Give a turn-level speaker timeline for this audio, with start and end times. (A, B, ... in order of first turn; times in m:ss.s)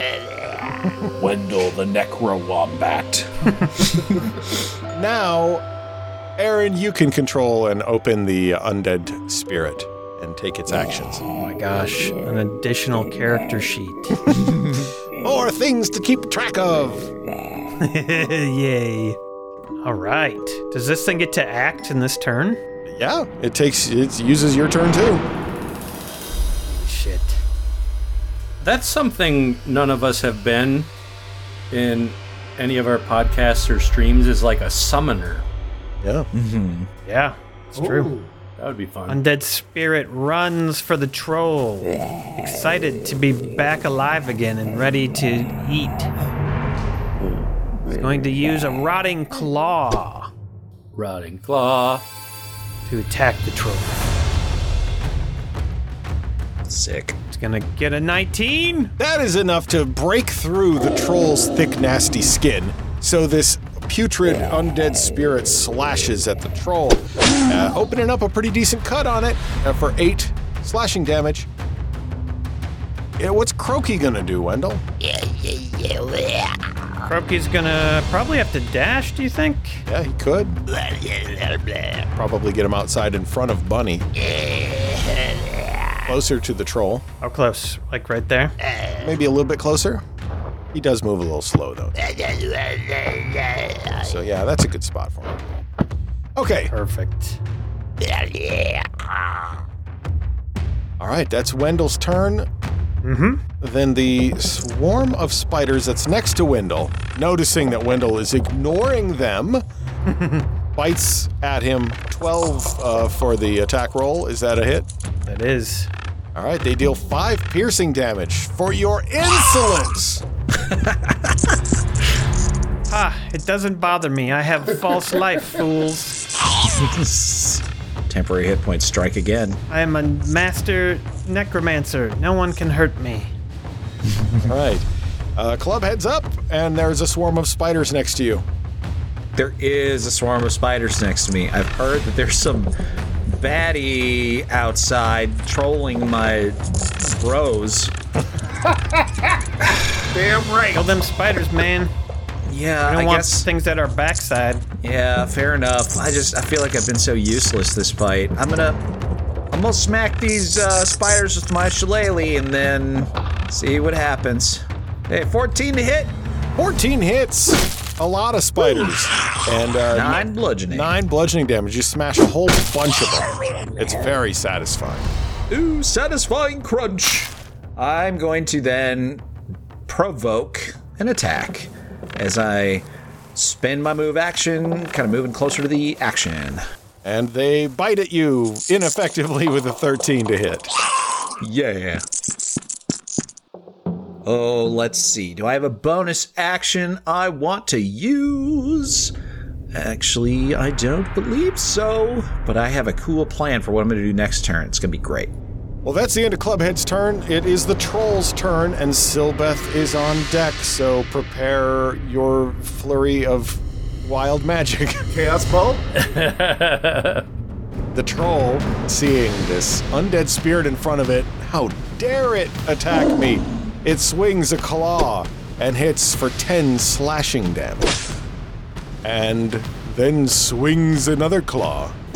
0:01.1-0:04.2 A
0:04.9-0:05.6 B
0:06.4-0:11.2 B
0:11.4-0:14.4 C
0:14.3-0:17.1 B
0:17.8-0:19.2 C
0:19.8-0:22.6 C
0:22.9-0:25.2 B
0:26.7-0:27.4 C
0:28.6-0:30.9 D
0:31.7-0:35.4 D
0:36.0-0:36.3 B
0:36.3-0:36.9 A
0:37.0-0:38.2 C
0:37.8-0:38.3 E
0:38.6-0:39.2 D
0:39.1-0:46.1 C
0:47.9-0:50.3 C
0:51.0-0:52.0 D
0:52.9-0:53.9 C
0:56.6-0:57.2 A
0:57.3-0:58.9 C
0:59.0-1:11.5 B
1:13.2-1:14.8 B
1:17.0-1:19.8 C
1:19.9-1:20.6 B
1:22.0-1:24.1 B
1:26.0-1:27.0 B
1:27.2-1:28.6 C
1:29.0-1:30.0 B
1:30.7-1:32.0 B
1:33.9-1:35.4 B
1:36.4-1:36.7 B
1:36.7-1:37.4 C
1:38.5-1:39.0 A
1:41.0-1:42.5 B
1:43.0-1:43.4 C
1:43.6-1:49.6 B
1:50.1-1:50.5 C
1:50.7-1:54.9 B
1:55.3-1:55.9 C
1:56.4-2:00.2 B
2:00.7-2:01.4 A
2:02.9-2:06.2 C
2:06.7-2:09.6 A
2:09.7-2:13.3 C
2:14.4-2:18.4 B
2:19.4-2:22.7 A
2:23.3-2:27.9 A
2:28.6-2:29.4 E
2:30.0-2:30.9 E
2:30.7-2:31.9 C
2:32.5-2:33.5 A
2:32.8-2:34.6 C
2:34.8-2:38.8 A
2:39.5-2:46.2 A
2:46.6-2:55.1 B
2:49.9-2:50.9 A
2:55.5-2:59.2 A
2:59.9-3:06.6 A
3:07.0-3:10.7 B
3:11.4-3:12.0 A
3:14.2-3:19.1 A
3:19.7-3:25.3 A
3:25.8-3:35.1 B
3:35.1-3:35.9 E
3:36.0-3:37.3 D
3:37.9-3:48.0 B
3:49.0-3:52.0 B